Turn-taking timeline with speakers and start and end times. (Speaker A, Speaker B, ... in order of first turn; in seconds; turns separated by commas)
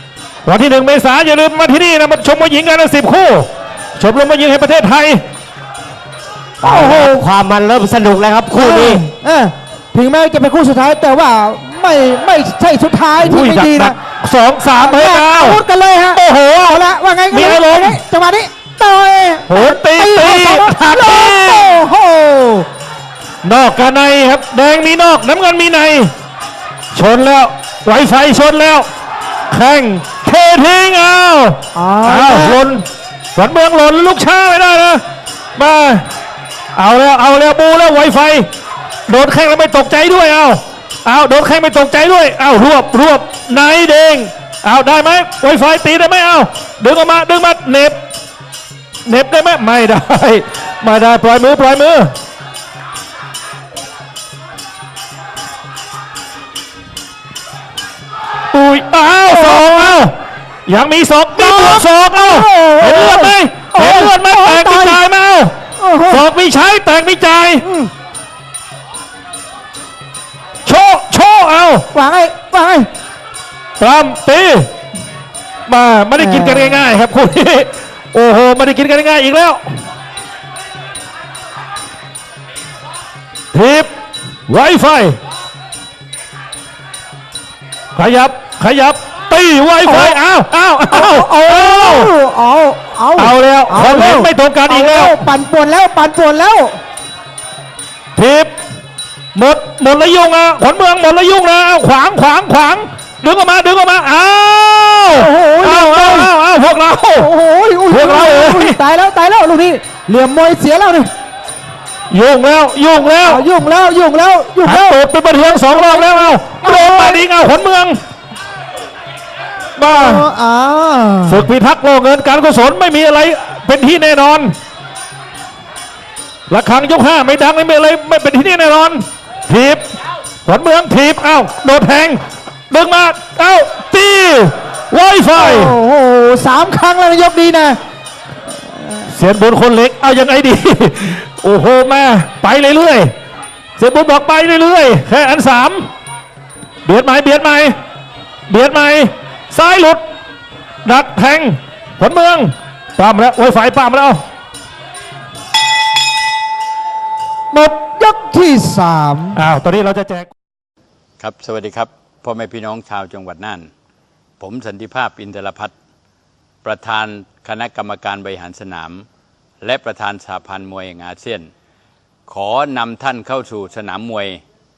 Speaker A: 0.4-5.2, Speaker B: 6.6-9.0, Speaker C: 6.6-7.2, Speaker C: 8.5-13.9, Speaker A: 13.2-15.6, Speaker C: 14.8-22.6, Speaker A: 16.1-18.0, Speaker A: 19.5-21.8, Speaker A: 23.4-26.1, Speaker A: 26.9-28.9, Speaker A: 29.5-35.0, Speaker C: 31.7-32.6, Speaker A: 35.6-36.1, Speaker A: 36.8-38.5, Speaker A: 39.1-48.0, Speaker A: 49.0-52.1, Speaker A: 58.5-65.5, Speaker C: 59.3-60.0, Speaker C: 61.3-65.0, Speaker C: 65.8-66.2, Speaker A: 66.1-67.6, Speaker C: 67.6-67.9, Speaker A: 70.6-71.9, Speaker C: 71.9-72.9, Speaker A: 73.8-74.7, Speaker A: 75.7-79.6, Speaker C: 76.2-76.8, Speaker A: 83.5-83.9, Speaker A: 84.5-85.2, Speaker A: 87.9-92.1, Speaker C: 89.8-90.2, Speaker C: 90.9-96.8, Speaker A: 93.2-95.3, Speaker A: 98.2-98.5, Speaker A: 99.3-107.3, Speaker C: 105.1-106.3, Speaker C: 107.2-111.1, Speaker A: 107.9-108.8, Speaker A: 112.1-113.4, Speaker C: 113.2-117.2, Speaker A: 114.6-118.0, Speaker A: 119.8-120.2, Speaker C: 119.9-121.5, Speaker A: 121.3-124.5, Speaker A: 126.5-129.9, Speaker A: 130.4-135.7, Speaker C: 135.3-137.8, Speaker C: 138.6-139.1, Speaker A: 139.1-143.1, Speaker A: 143.8-145.9, Speaker A: 146.8-147.7, Speaker A: 148.5-150.0, Speaker A: 150.8-154.2, Speaker C: 157.5-159.4, Speaker A: 159.3-160.3, Speaker D: 161.2-163.7, Speaker D: 164.4-165.7, Speaker D: 166.6-169.1, Speaker D: 169.6-171.5, Speaker D: 172.3-174.4